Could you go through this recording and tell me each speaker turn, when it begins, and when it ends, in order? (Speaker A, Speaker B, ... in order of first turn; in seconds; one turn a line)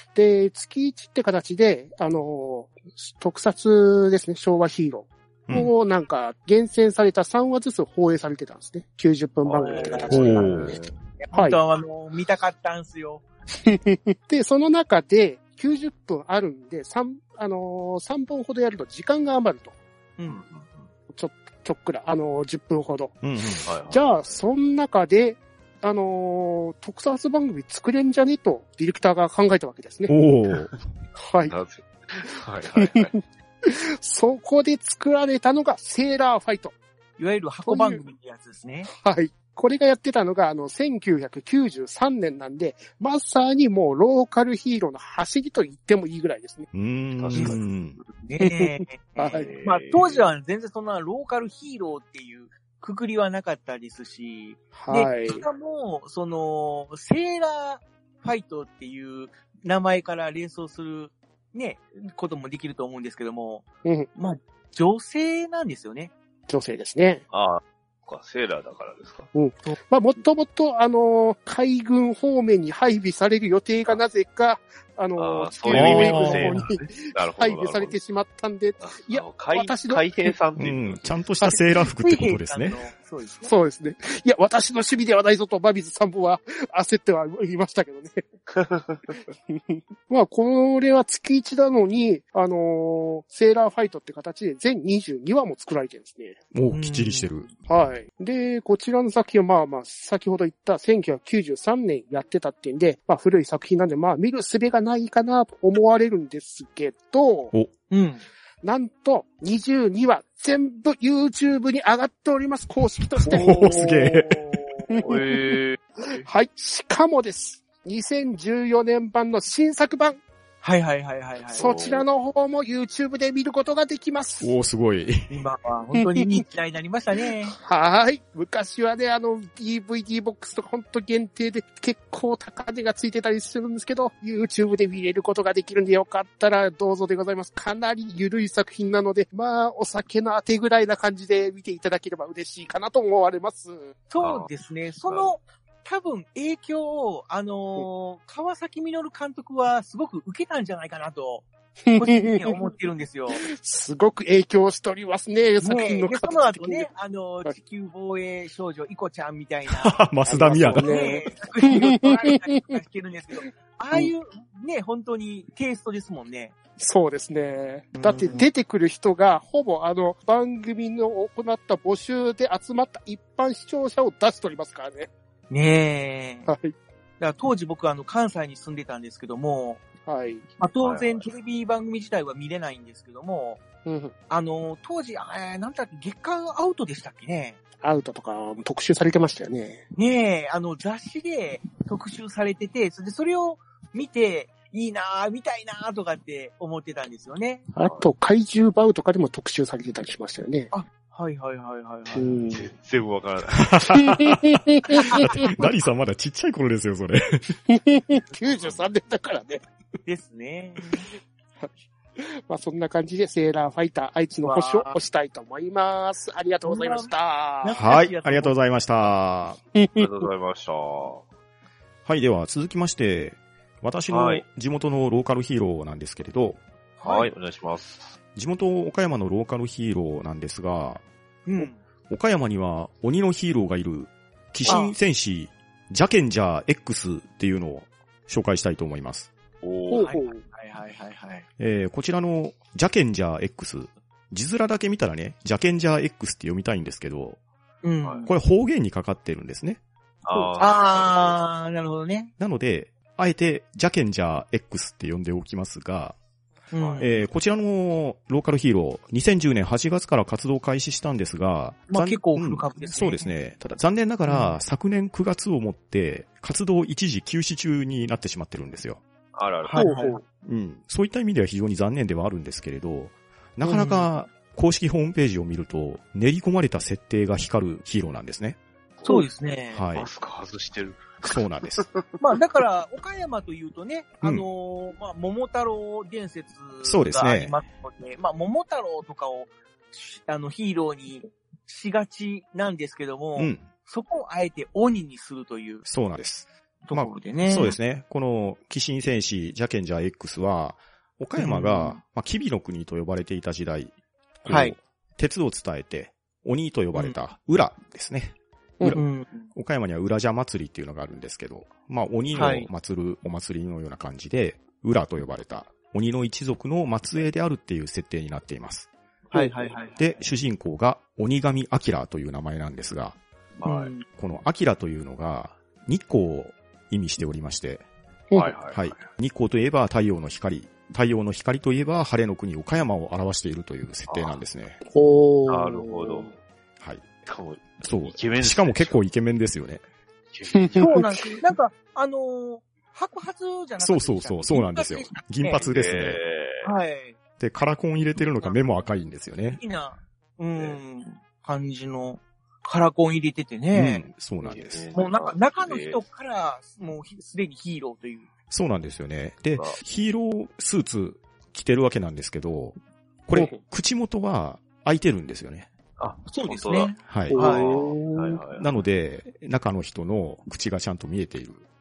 Speaker A: 0.1-10.8
Speaker B: 5.5-5.7
Speaker C: 9.4-10.9
Speaker D: 9.6-10.6
Speaker B: 10.1-10.8
Speaker D: 11.2-13.2
Speaker A: 11.3-11.6
Speaker A: 13.7-19.7
Speaker D: 20.2-20.4
Speaker C: 20.3-20.9
Speaker A: 21.1-23.2
Speaker B: 23.2-23.7
Speaker C: 23.7-24.1
Speaker A: 23.9-30.1
Speaker B: 30.1-30.7
Speaker A: 31.1-31.5
Speaker C: 31.5-33.1
Speaker A: 32.7-36.7
Speaker D: 37.2-38.9
Speaker A: 37.7-38.0
Speaker A: 38.9-46.7
Speaker B: 46.7-48.0
Speaker C: 47.1-47.7
Speaker D: 47.3-47.6
Speaker D: 48.2-66.1
Speaker A: 48.4-49.5
Speaker C: 49.2-50.2
Speaker A: 54.7-55.5
Speaker A: 66.5-67.2
Speaker C: 67.3-69.3
Speaker A: 69.3-80.3
Speaker C: 75.2-78.0
Speaker B: 75.7-76.5
Speaker D: 76.1-76.5
Speaker C: 78.8-81.2
Speaker B: 80.6-82.8
Speaker D: 82.0-83.5
Speaker A: 83.4-88.2
Speaker C: 88.5-89.1
Speaker A: 89.5-96.4
Speaker B: 96.5-97.5
Speaker D: 96.7-97.3
Speaker A: 97.7-107.5
Speaker D: 107.9-108.2
Speaker A: 108.6-115.6
Speaker B: 113.2-114.6
Speaker C: 115.0-116.3
Speaker A: 116.2-120.2
Speaker D: 120.6-121.7
Speaker C: 121.5-122.0
Speaker A: 121.6-124.5
Speaker B: 124.4-125.3
Speaker D: 125.3-127.5
Speaker A: 126.0-126.4
Speaker A: 127.5-143.9
Speaker D: 144.1-153.4
Speaker C: 144.2-144.5
Speaker C: 145.1-145.3
Speaker A: 151.8-152.6
Speaker A: 153.3-156.9
Speaker D: 155.6-160.0
Speaker B: 159.7-160.9
Speaker A: 160.3-162.8
Speaker D: 160.7-166.5
Speaker A: 166.8-175.1
Speaker D: 167.9-168.5
Speaker D: 175.5-176.5
Speaker A: 176.5-176.7
Speaker D: 177.2-179.8
Speaker A: 180.0-180.4
Speaker D: 180.6-183.6
Speaker C: 180.8-181.2
Speaker A: 183.8-184.1
Speaker D: 184.3-187.6
Speaker A: 187.8-189.8
Speaker D: 190.0-197.7
Speaker A: 197.7-200.7
Speaker C: 197.8-198.1
Speaker D: 200.7-202.3
Speaker A: 202.1-202.6
Speaker C: 202.5-204.0
Speaker B: 203.6-204.4
Speaker A: 203.9-205.5
Speaker B: 205.2-207.2
Speaker A: 207.7-209.6
Speaker C: 208.4-208.8
Speaker D: 210.1-211.1
Speaker A: 211.6-217.8
Speaker D: 214.4-215.0
Speaker D: 216.6-217.1
Speaker D: 217.6-218.5
Speaker B: 217.7-219.6
Speaker A: 219.7-220.2
Speaker C: 220.0-221.2
Speaker B: 222.0-226.6
Speaker C: 224.1-224.4
Speaker D: 227.0-227.3
Speaker C: 227.0-228.2
Speaker B: 228.3-231.0
Speaker D: 231.5-231.8
Speaker B: 232.1-239.3
Speaker D: 234.7-234.9
Speaker C: 239.6-240.1
Speaker A: 239.9-240.4
Speaker D: 240.0-241.4
Speaker B: 241.6-247.4
Speaker D: 247.8-248.3
Speaker B: 248.3-249.8
Speaker C: 250.2-251.4
Speaker D: 250.6-252.3
Speaker B: 252.4-256.1
Speaker D: 256.7-257.2
Speaker C: 256.8-257.1
Speaker B: 257.0-269.0
Speaker D: 261.9-263.3
Speaker D: 264.2-264.6
Speaker C: 269.3-269.9
Speaker D: 269.6-270.1
Speaker A: 269.8-270.2
Speaker B: 270.4-278.6
Speaker D: 273.6-274.1
Speaker D: 279.0-279.8
Speaker B: 279.7-280.1
Speaker C: 279.9-282.1
Speaker B: 281.2-281.9
Speaker D: 282.2-295.9
Speaker B: 284.2-284.5
Speaker B: 286.8-287.6
Speaker B: 293.4-293.6
Speaker B: 295.9-318.9
Speaker D: 296.9-297.8
Speaker D: 301.4-302.0
Speaker D: 304.5-304.8
Speaker D: 309.0-309.5
Speaker D: 312.3-312.7
Speaker D: 319.3-320.0
Speaker C: 319.4-320.0
Speaker B: 320.0-323.2
Speaker C: 323.6-323.9
Speaker D: 323.6-324.0
Speaker B: 324.1-327.8
Speaker C: 328.4-329.1
Speaker B: 328.7-334.8
Speaker C: 334.1-334.4
Speaker A: 334.9-336.3
Speaker C: 335.5-336.4
Speaker B: 336.8-337.1
Speaker C: 337.2-339.0
Speaker B: 337.8-339.8
Speaker C: 340.3-341.0
Speaker A: 340.5-341.5
Speaker D: 340.8-345.6
Speaker B: 343.8-346.2
Speaker C: 345.5-346.7
Speaker D: 346.6-347.2
Speaker B: 347.4-349.6
Speaker D: 349.5-354.0
Speaker B: 353.7-354.8
Speaker C: 354.4-356.0
Speaker D: 354.9-358.3
Speaker B: 358.5-362.8
Speaker C: 359.5-359.8
Speaker B: 363.3-365.7
Speaker C: 366.0-368.7
Speaker D: 366.2-367.7
Speaker B: 367.1-367.4
Speaker A: 367.3-368.4
Speaker B: 368.5-371.6